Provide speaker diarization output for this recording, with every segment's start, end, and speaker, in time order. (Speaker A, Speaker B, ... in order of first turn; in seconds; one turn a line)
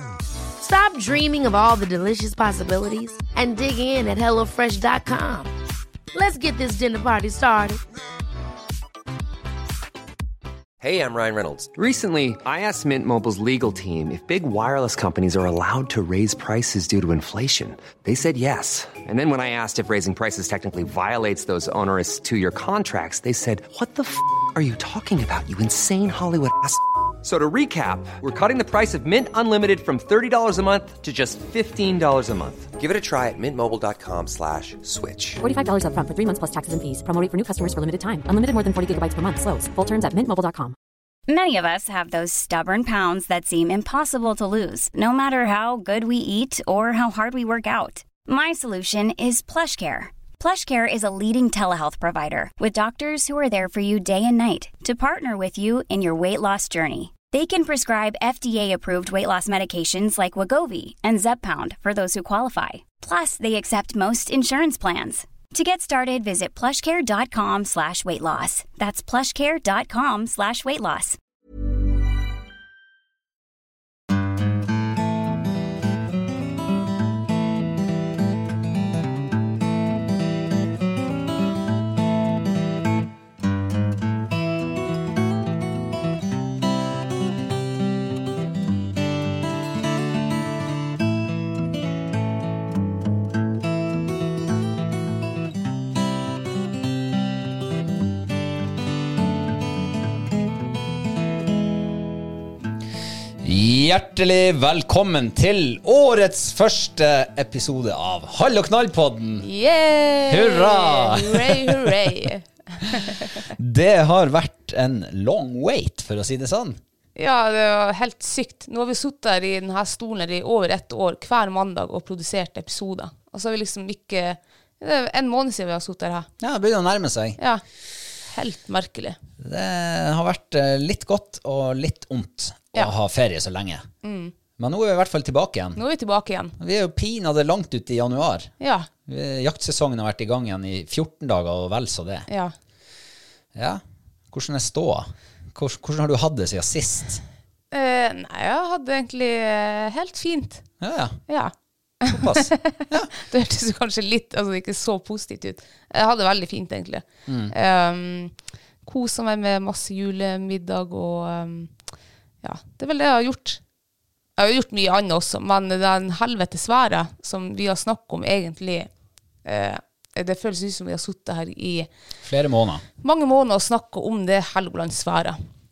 Speaker A: 0.6-5.5
Speaker A: 6.1-7.8
Speaker B: 10.8-35.4
Speaker C: 35.4-40.7
Speaker D: 41.3-71.2
Speaker E: 103.4-109.5
Speaker F: 109.4-113.4
Speaker E: 110.3-112.2
Speaker E: 112.8-116.8
Speaker F: 117.2-126.3
Speaker E: 126.4-127.4
Speaker F: 127.4-127.6
Speaker F: 128.2-129.2
Speaker E: 129.4-133.9
Speaker F: 134.0-134.3
Speaker E: 134.6-135.8
Speaker F: 135.8-136.6
Speaker E: 136.6-138.5
Speaker F: 138.6-138.9
Speaker E: 139.1-142.3
Speaker F: 142.3-142.5
Speaker E: 143.5-147.2
Speaker F: 147.7-150.7
Speaker E: 150.8-151.2
Speaker F: 151.3-161.7
Speaker E: 152.1-153.1
Speaker E: 157.3-157.5
Speaker F: 162.4-163.6
Speaker F: 164.4-168.9
Speaker F: 169.4-171.9
Speaker E: 172.2-172.8
Speaker F: 173.0-175.4